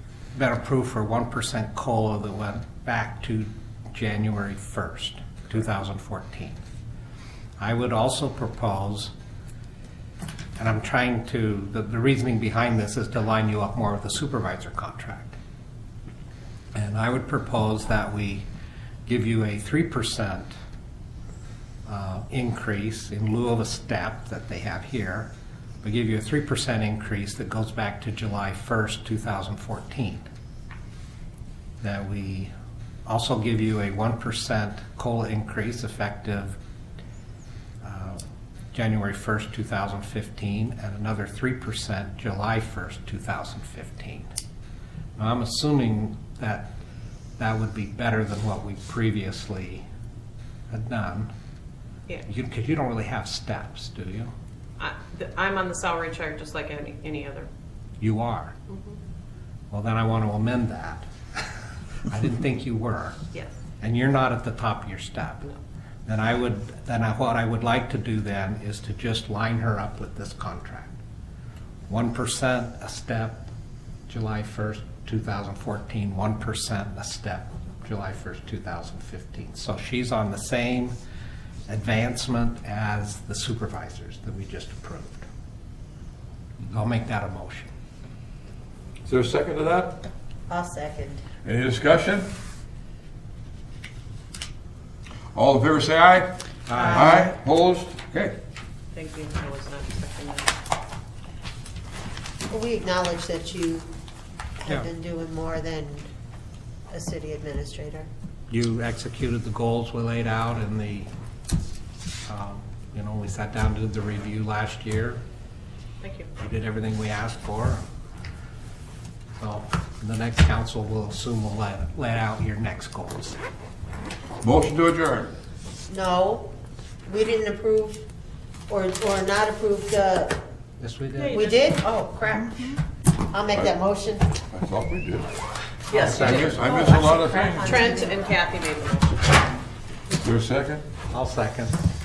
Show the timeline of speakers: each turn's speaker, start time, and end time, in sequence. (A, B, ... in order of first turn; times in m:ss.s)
0:00.3-0:06.6 A
0:07.6-0:09.1 A
0:10.6-0:15.4 A
0:16.7-0:18.4 A
0:19.1-0:20.5 A
0:21.8-0:25.3 A
0:25.8-0:30.3 A
0:31.8-0:32.5 A
0:33.0-0:36.6 A
0:37.8-0:38.2 A
0:38.7-0:44.3 A
0:45.2-0:46.7 A
0:47.4-0:49.8 A
0:50.7-0:51.3 A
0:52.3-0:54.3 A
0:54.8-0:57.5 B
0:58.0-0:58.5 A
0:58.7-0:59.0 B
0:59.7-1:01.1 A
1:02.1-1:03.2 A
1:03.8-1:05.5 A
1:06.0-1:11.0 A
1:11.9-1:13.5 A
1:14.1-1:20.9 A
1:21.7-1:25.3 A
1:26.7-1:27.7 A
1:29.0-1:30.0 C
1:30.5-1:31.2 D
1:31.4-1:32.3 C
1:35.3-1:36.3 C
1:36.7-1:37.3 A
1:36.7-1:37.2 D
1:36.9-1:38.4 C
1:38.9-1:40.5 B
1:42.5-1:43.9 D
1:44.6-1:46.0 D
1:46.9-1:48.1 D
1:48.5-1:51.1 A
1:52.3-1:55.2 A
1:56.0-1:56.3 B
1:56.4-1:57.8 A
1:59.4-2:03.4 A
2:04.4-2:05.3 C
2:05.9-2:06.5 D
2:07.1-2:08.0 D
2:08.7-2:10.4 D
2:10.8-2:11.5 A
2:11.2-2:11.6 B
2:11.3-2:12.8 D
2:13.3-2:14.3 D
2:14.5-2:15.3 C
2:15.9-2:16.6 B
2:15.9-2:16.6 A
2:16.1-2:18.3 D
2:16.1-2:17.8 C
2:17.6-2:19.1 B
2:20.1-2:20.8 C
2:21.1-2:21.8 A